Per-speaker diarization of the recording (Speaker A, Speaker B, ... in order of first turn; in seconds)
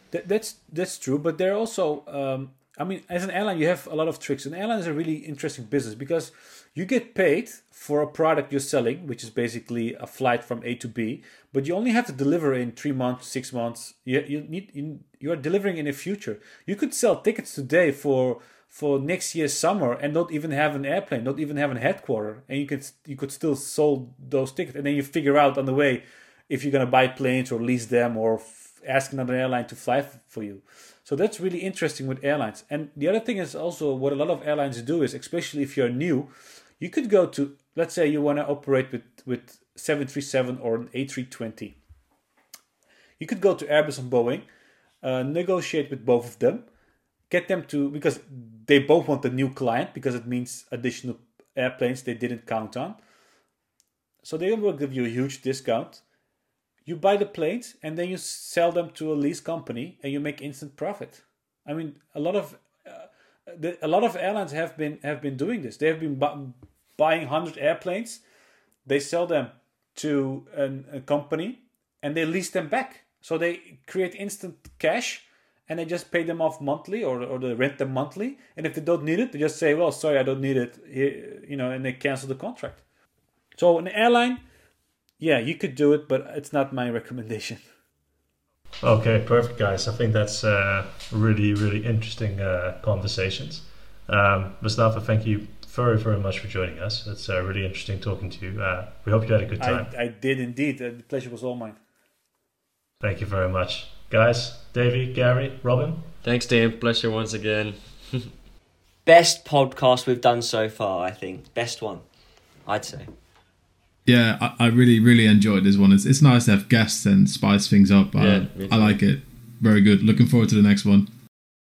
Speaker A: 0.1-41.8, 43.2-44.5, 45.0-46.6, 47.3-53.0, 54.2-56.0, 56.8-68.2, 68.8-82.8, 83.5-84.4, 85.2-87.7, 99.6-101.8
Speaker B: 88.8-99.9, 103.0-106.1
Speaker C: 106.2-108.3, 118.1-119.0
Speaker D: 109.0-112.0, 112.7-113.1
Speaker E: 114.0-121.1